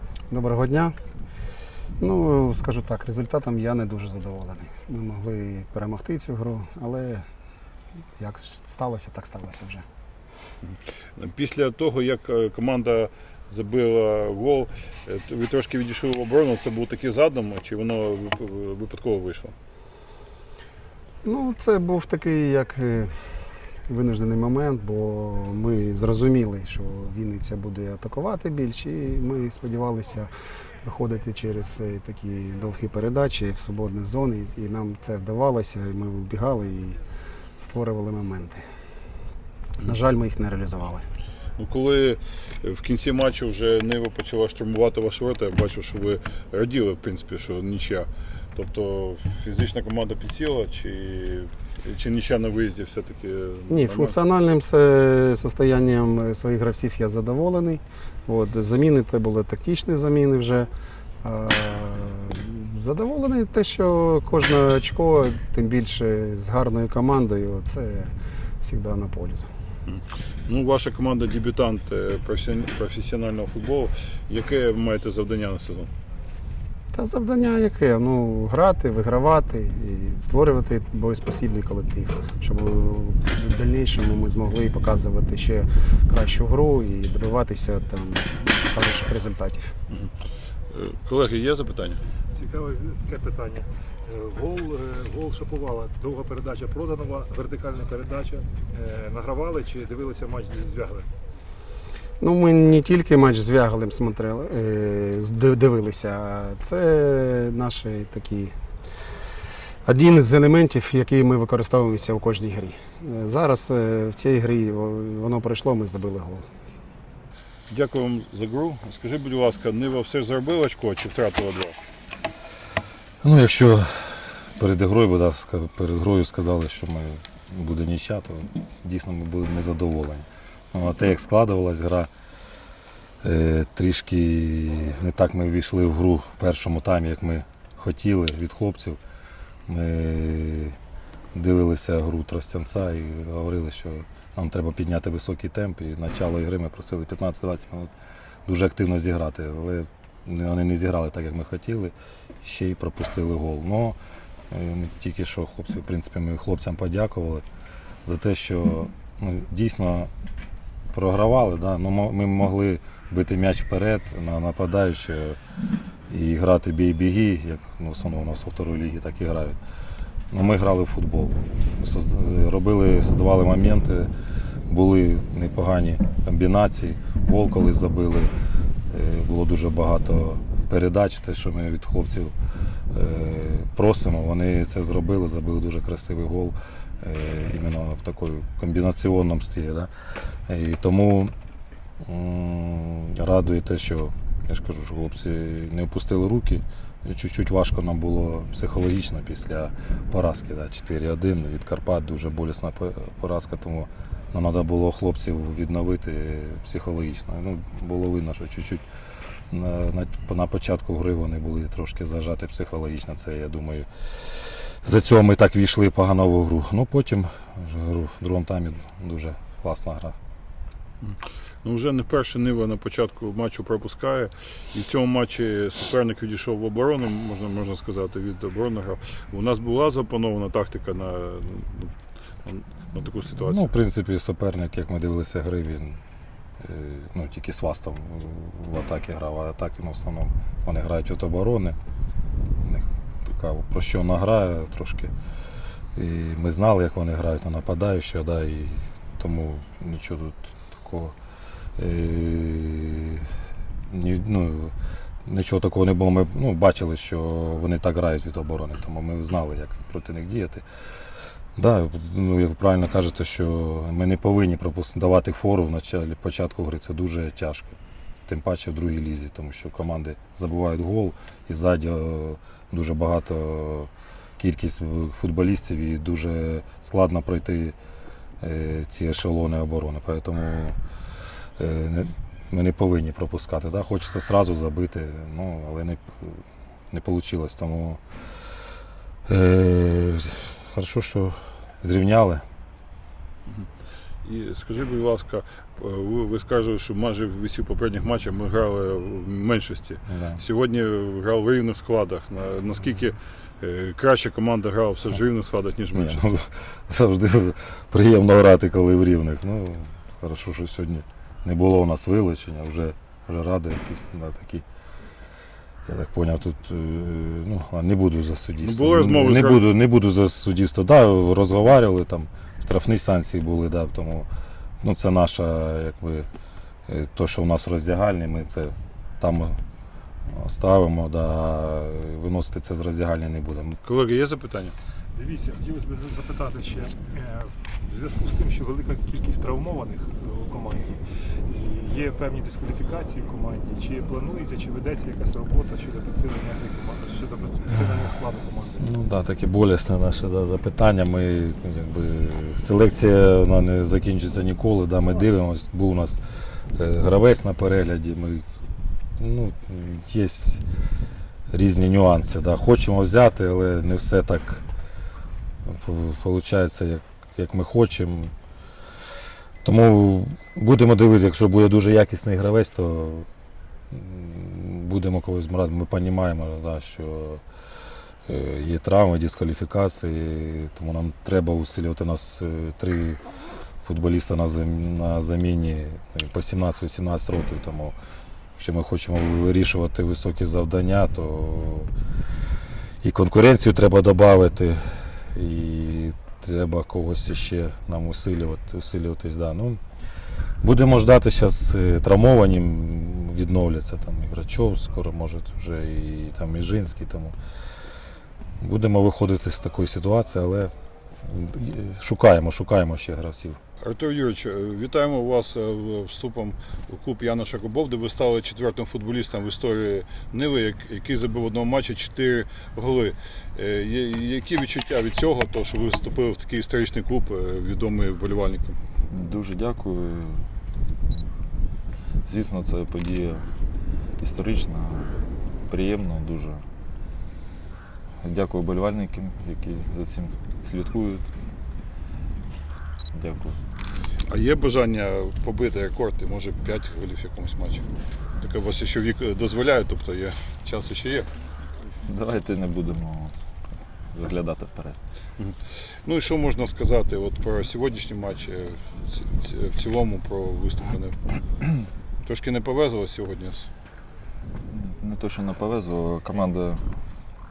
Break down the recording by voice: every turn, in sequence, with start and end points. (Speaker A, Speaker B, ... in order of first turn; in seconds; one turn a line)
Speaker A: 0.3-0.9
Speaker A: 2.0-7.2
Speaker A: 8.2-9.8
Speaker B: 11.2-19.5
Speaker A: 21.2-23.1
Speaker A: 23.9-30.3
Speaker A: 30.8-37.0
Speaker A: 37.6-38.6
Speaker A: 39.8-41.0
Speaker B: 41.6-54.1
Speaker A: 53.7-60.7
Speaker A: 61.2-69.5
Speaker B: 69.9-75.9
Speaker A: 76.9-89.7
Speaker B: 90.7-92.0
Speaker C: 92.3-101.1
Speaker A: 102.2-108.5
Speaker A: 109.8-116.5
Speaker B: 117.7-121.8
Speaker D: 123.2-132.1
Speaker D: 133.2-139.0
Speaker D: 139.7-140.8
Speaker D: 141.3-147.9
Speaker D: 148.4-154.0
Speaker D: 154.5-157.4
Speaker D: 158.1-160.1
Speaker D: 160.9-165.4
Speaker D: 166.1-169.6
Speaker D: 170.3-174.1
Speaker D: 174.7-178.3
Speaker D: 178.9-182.3
Speaker D: 182.9-189.9
Speaker D: 190.5-191.3
Speaker D: 192.0-208.8
Speaker D: 209.5-220.2
Speaker B: 221.0-231.9
Speaker B: 232.4-233.7
Speaker D: 233.4-236.0
Speaker D: 236.6-241.8
Speaker D: 242.6-245.1
Speaker D: 245.9-251.1
Speaker D: 251.8-253.3
Speaker D: 253.9-254.7
Speaker D: 255.2-260.6
Speaker D: 261.6-277.8
Speaker D: 278.4-280.8
Speaker D: 281.6-288.0
Speaker D: 289.3-292.4
Speaker B: 294.2-306.2
Speaker D: 300.1-300.4
Speaker D: 305.9-314.6
Speaker D: 315.9-324.3
Speaker B: 318.6-319.7
Speaker D: 324.8-326.3
Speaker D: 326.9-329.6
Speaker D: 330.3-333.8
Speaker B: 333.8-334.7
Speaker C: 335.1-348.9
Speaker D: 348.8-356.2
Speaker D: 356.7-358.4
Speaker D: 359.2-360.6
Speaker D: 361.5-364.6
Speaker D: 365.6-368.3
Speaker D: 369.6-373.3
Speaker D: 373.9-377.4
Speaker D: 378.3-383.2
Speaker D: 383.8-387.9
Speaker D: 388.6-391.9
Speaker D: 393.0-399.8
Speaker D: 400.6-407.4
Speaker D: 408.6-410.7
Speaker D: 411.2-413.6
Speaker B: 413.8-428.8
Speaker E: 429.1-430.5
Speaker E: 432.2-433.5
Speaker E: 434.2-436.7
Speaker E: 438.2-441.3
Speaker E: 443.1-443.6
Speaker B: 444.3-447.8
Speaker B: 448.4-451.3
Speaker E: 452.0-453.4
Speaker E: 454.1-455.0
Speaker B: 455.4-461.2
Speaker B: 462.2-463.7
Speaker E: 464.7-467.0